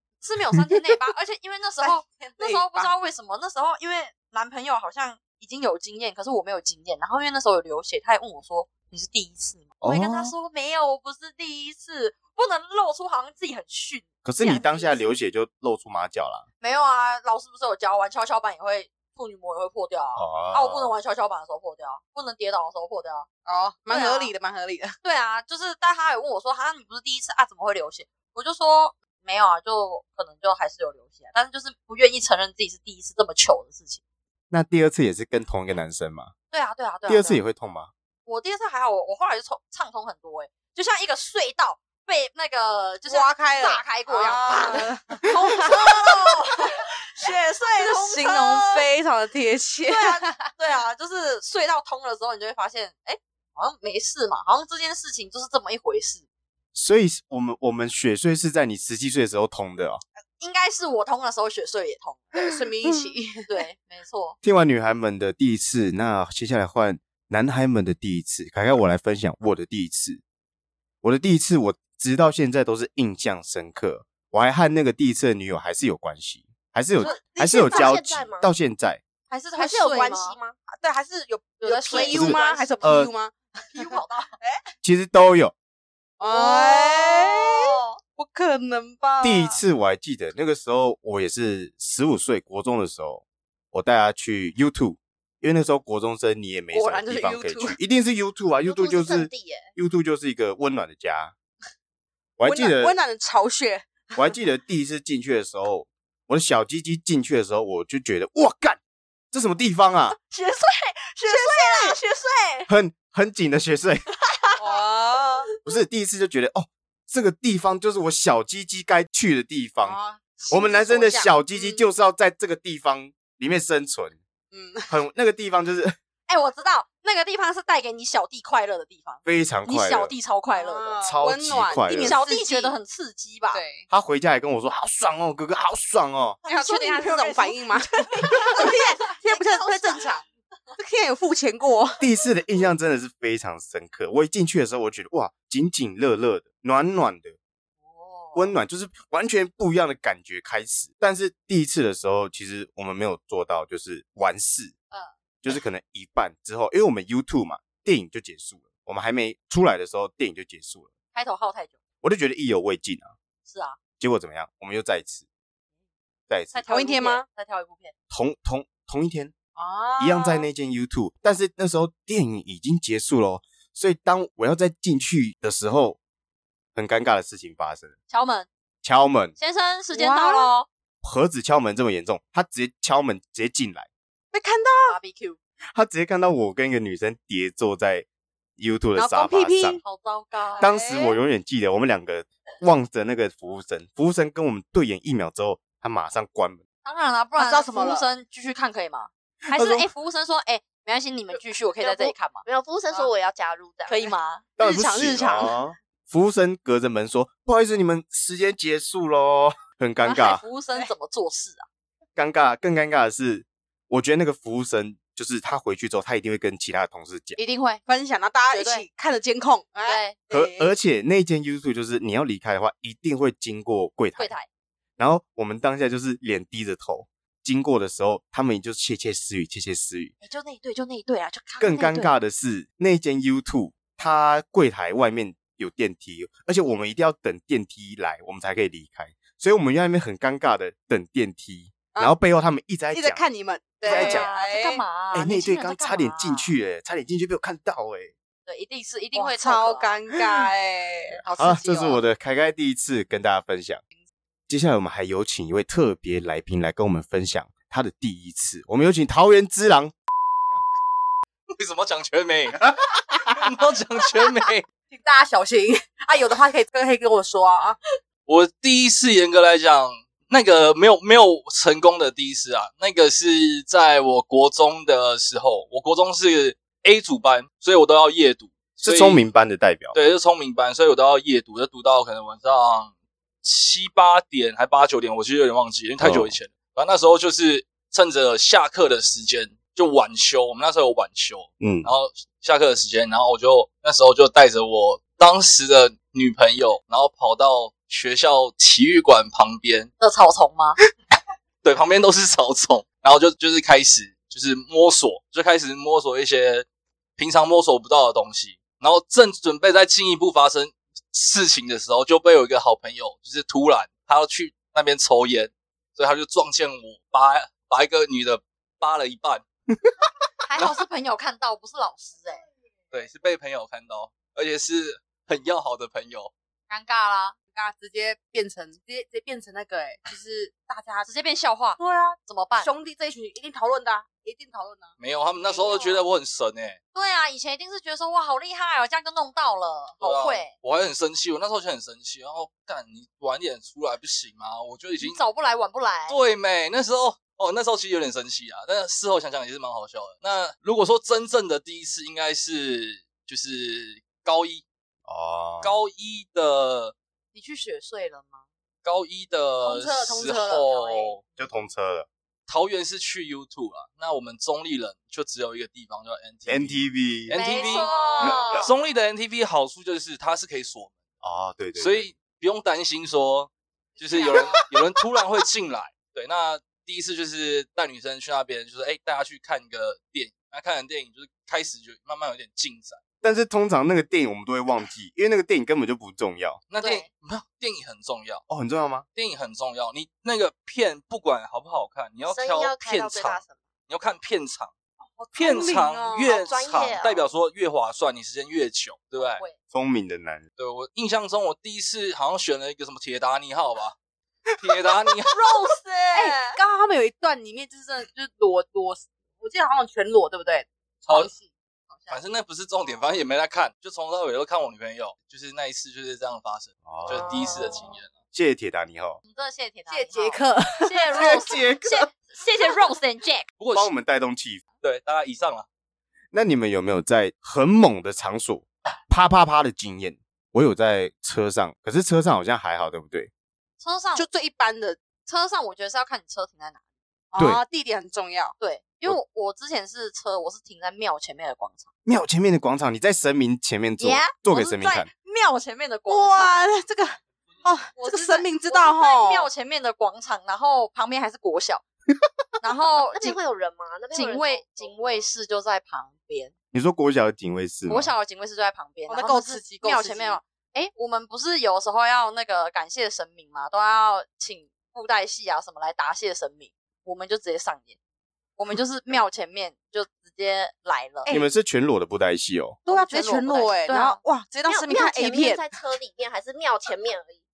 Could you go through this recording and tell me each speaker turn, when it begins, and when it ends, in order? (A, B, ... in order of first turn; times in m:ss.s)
0:00.2-0:15.1 A
0:01.8-0:02.9 B
0:09.8-0:10.3 C
0:14.2-0:16.4 C
0:16.6-0:23.3 A
0:20.2-0:20.9 C
0:23.4-0:24.9 B
0:23.9-0:24.3 A
0:25.0-0:34.0 A
0:34.5-0:36.3 C
0:36.5-0:37.4 A
0:37.1-0:37.9 C
0:38.2-0:48.8 A
0:43.0-0:46.4 B
0:47.2-0:50.3 B
0:49.9-0:56.2 A
0:56.7-1:00.0 C
1:00.4-1:02.6 A
1:02.3-1:03.5 B
1:03.4-1:04.4 A
1:04.4-1:10.2 C
1:11.0-1:19.0 C
1:17.0-1:17.9 B
1:17.5-1:18.5 D
1:19.3-1:20.4 A
1:19.6-1:23.9 B
1:20.2-1:20.5 D
1:21.6-1:22.7 A
1:21.8-1:22.2 D
1:22.1-1:23.1 C
1:23.7-1:24.3 A
1:24.4-1:24.7 B
1:24.8-1:25.5 C
1:26.2-1:29.6 B
1:26.2-1:28.0 A
1:29.2-1:41.3 C
1:36.8-1:37.6 B
1:37.2-1:37.5 A
1:38.6-1:39.7 D
1:42.4-1:43.0 C
1:42.4-1:44.2 B
1:44.2-1:48.8 C
1:49.3-1:50.2 C
1:50.2-1:52.7 A
1:51.2-1:52.0 B
1:52.7-1:54.0 C
1:54.2-1:54.8 A
1:54.6-1:55.5 B
1:55.6-2:00.0 C
1:59.8-2:01.8 B
2:00.5-2:04.2 C
2:04.5-2:04.9 B
2:04.9-2:06.0 C
2:06.3-2:11.0 A
2:09.2-2:10.1 C
2:10.5-2:12.7 B
2:11.0-2:12.2 C
2:11.8-2:13.6 A
2:13.5-2:13.9 B
2:13.9-2:16.4 C
2:16.4-2:20.2 A
2:16.4-2:20.2 B
2:20.8-2:22.0 B
2:22.0-2:27.4 C
2:27.8-2:28.5 A
2:28.3-2:34.7 C
2:35.4-2:40.9 C
2:41.1-2:41.7 A
2:42.0-2:43.1 C
2:43.4-2:43.8 A
2:44.0-2:45.2 C
2:46.3-2:46.6 C
2:46.5-2:47.9 A
2:46.7-2:47.2 B
2:48.1-2:49.3 C
2:49.6-2:50.5 B
2:50.0-2:56.0 C
2:56.7-2:57.9 C
2:58.1-2:58.5 A
2:58.8-2:59.3 C
2:59.4-3:00.7 A
2:59.9-3:00.5 B
3:01.0-3:03.9 C
3:04.3-3:05.0 B
3:04.9-3:05.4 A
3:05.7-3:08.0 C
3:08.6-3:09.8 C
3:09.0-3:09.8 B
3:09.8-3:10.7 A
3:10.5-3:11.2 B
3:10.6-3:16.6 C
3:16.8-3:22.4 A
3:17.4-3:18.1 B
3:19.5-3:19.9 C
3:21.8-3:24.1 D
3:23.9-3:24.4 A
3:24.6-3:30.4 C
3:24.6-3:25.5 B
3:30.0-3:31.6 A
3:32.2-3:37.4 C
3:37.4-3:37.8 A
3:37.8-3:40.7 B
3:38.5-3:38.8 A
3:39.8-3:40.2 A
3:40.3-3:44.3 C
3:44.2-3:44.5 A
3:45.0-3:50.1 C
3:50.2-3:52.1 A
3:51.6-4:03.2 C
4:02.9-4:04.8 B
4:03.8-4:04.3 C
4:03.8-4:06.5 A
4:05.1-4:08.1 C
4:08.4-4:10.0 A
4:09.1-4:12.0 B
4:11.4-4:13.8 C
4:14.5-4:20.0 C
4:21.5-4:24.6 E
4:24.9-4:27.8 B
4:28.2-4:39.2 E
4:38.8-4:40.0 C
4:39.9-4:42.9 E
4:43.4-4:59.9 E
4:46.0-4:46.4 C
4:51.6-4:51.9 C
5:00.0-5:00.8 A
5:01.6-5:06.6 E
5:07.2-5:19.4 E
5:20.4-5:22.4 A
5:22.9-5:26.3 E
5:26.7-5:27.4 A
5:27.5-5:31.1 B
5:31.0-5:32.7 A
5:31.8-5:34.9 B
5:35.0-5:36.8 E
5:35.5-5:35.9 A
5:35.5-5:35.9 B
5:36.9-5:40.5 A
5:40.0-5:45.2 E
5:45.0-5:46.2 A
5:46.1-5:54.6 E
5:55.1-5:55.8 C
5:55.6-5:56.9 E
5:57.3-5:58.4 A
5:58.8-6:01.2 E
5:59.6-6:01.1 B
6:01.4-6:02.1 C
6:02.5-6:11.0 E
6:06.4-6:07.4 C
6:07.3-6:08.7 A
6:07.7-6:08.0 B
6:11.2-6:12.1 C
6:11.8-6:23.0 E
6:23.2-6:26.6 C
6:26.7-6:28.4 E
6:26.8-6:27.0 A
6:28.5-6:29.0 C
6:29.1-6:34.7 E
6:32.3-6:33.6 D
6:35.2-6:36.4 B
6:35.3-6:39.4 E
6:36.3-6:37.3 D
6:39.1-6:39.5 A
6:39.7-6:40.4 C
6:40.6-6:44.0 E
6:44.6-6:45.5 E
6:45.3-6:46.6 A
6:46.1-6:51.5 B
6:52.1-6:58.1 E
6:56.8-6:57.6 C
6:57.1-6:57.7 D
6:58.3-6:59.2 C
6:59.3-7:03.5 A
6:59.9-7:01.4 B
7:01.1-7:02.1 C
7:03.6-7:03.9 E
7:03.7-7:04.6 C
7:04.8-7:05.6 E
7:06.3-7:13.3 C
7:13.8-7:14.3 A
7:14.1-7:15.0 B
7:15.2-7:16.8 A
7:17.3-7:18.5 B
7:18.6-7:21.9 A
7:22.0-7:25.1 C
7:24.0-7:26.6 A
7:26.1-7:29.5 B
7:28.0-7:31.8 A
7:32.6-7:33.4 A
7:33.1-7:35.3 D
7:34.1-7:36.5 A
7:36.7-7:38.1 C
7:37.9-7:48.0 A
7:39.1-7:40.4 B
7:48.6-7:51.3 A
7:51.3-7:52.8 C
7:52.8-7:55.7 B
7:52.9-7:54.2 A
7:54.7-7:57.4 D